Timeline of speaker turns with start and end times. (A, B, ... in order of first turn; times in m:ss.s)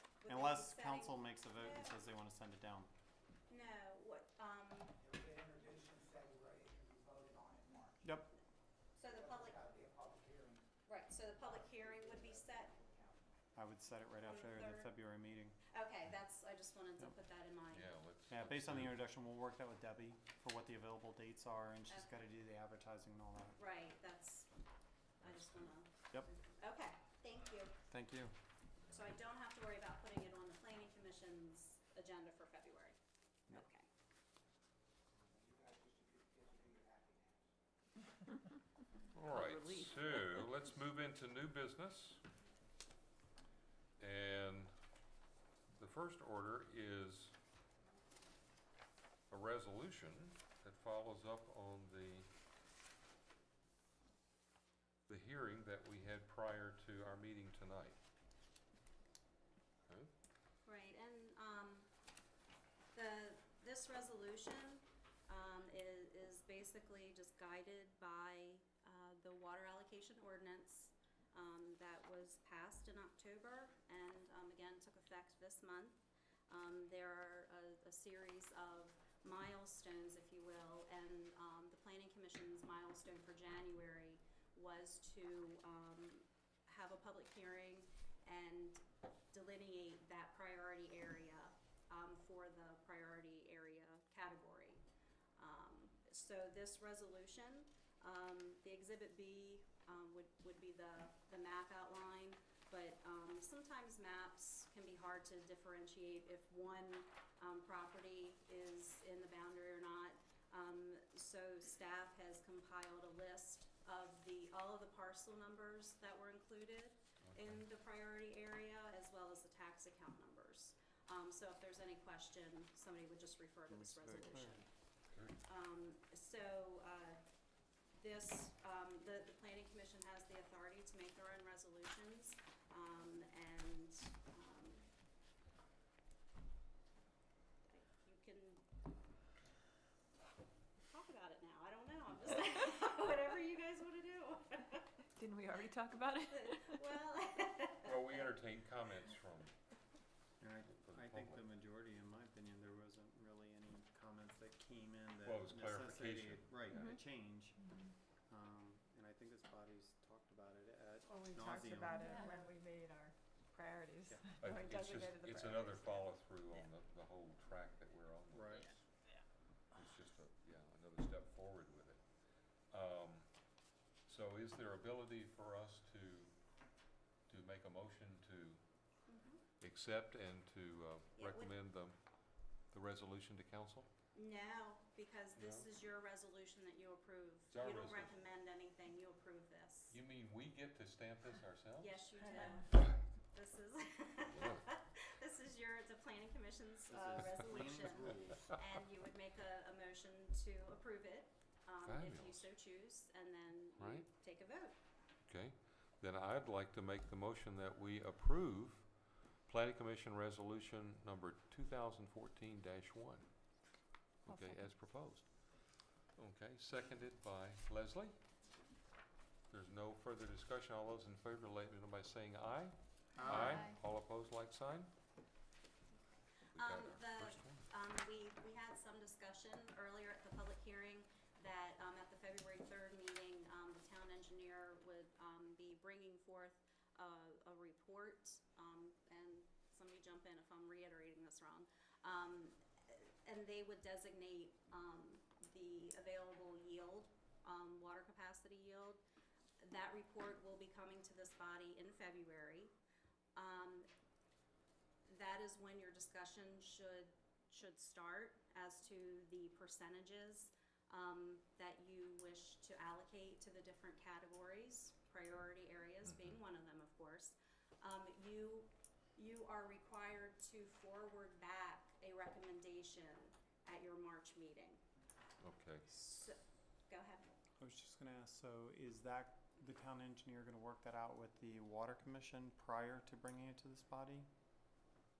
0:00.2-0:02.0 A
0:00.3-0:02.9 B
0:03.5-0:04.9 A
0:05.0-0:08.0 C
0:08.0-0:08.3 B
0:09.0-0:09.6 A
0:09.0-0:10.7 C
0:10.9-0:12.7 A
0:11.4-0:13.2 C
0:13.5-0:15.6 B
0:14.2-0:14.9 A
0:15.7-0:17.9 A
0:17.7-0:19.0 D
0:18.3-0:23.6 B
0:23.6-0:24.5 A
0:25.2-0:27.7 A
0:25.2-0:25.7 D
0:27.9-0:28.3 B
0:28.9-0:33.0 A
0:33.5-0:33.9 A
0:35.4-0:37.4 C
0:39.1-0:42.2 D
0:39.3-0:40.5 E
0:44.0-0:44.7 D
0:45.8-0:47.3 D
0:49.3-0:52.3 D
0:55.1-0:58.0 D
1:00.6-1:01.9 A
1:02.9-1:16.0 A
1:16.5-1:34.8 A
1:35.4-2:04.7 A
1:57.2-1:57.6 D
2:03.7-2:04.6 B
2:05.1-2:05.4 D
2:05.4-2:07.2 A
2:08.0-2:14.9 A
2:17.7-2:18.6 A
2:20.9-2:24.9 A
2:25.1-2:26.8 E
2:26.3-2:28.3 A
2:27.8-2:29.5 D
2:30.4-2:37.6 B
2:30.7-2:31.4 D
2:35.2-2:36.9 D
2:36.7-2:37.0 E
2:37.6-2:37.9 E
2:38.3-2:42.2 B
2:41.1-2:46.0 E
2:44.4-2:48.8 D
2:48.3-2:48.7 B
2:49.7-2:52.0 D
2:52.7-2:53.3 D
2:54.0-2:56.4 D
2:57.3-2:58.6 D
2:59.1-2:59.4 A
2:59.6-3:02.0 D
3:01.2-3:01.5 A
3:02.7-3:03.9 D
3:04.1-3:10.0 A
3:05.3-3:05.6 D
3:07.5-3:08.2 D
3:09.9-3:12.6 D
3:11.8-3:24.7 A
3:14.3-3:14.6 D
3:16.9-3:18.6 B
3:21.8-3:22.4 D
3:23.8-3:24.0 D
3:25.3-3:33.3 D
3:34.2-3:38.1 D
3:34.2-3:34.7 E
3:39.5-3:44.9 D
3:43.2-3:43.7 B
3:43.3-3:43.6 E
3:46.5-3:47.7 D
3:46.6-4:09.0 A
4:09.6-4:12.7 A
4:13.4-4:13.9 A
4:15.1-4:34.8 A
4:26.0-4:26.4 D
4:35.4-4:35.9 D
4:35.9-4:36.4 A
4:36.9-4:37.4 A
4:37.6-4:44.3 B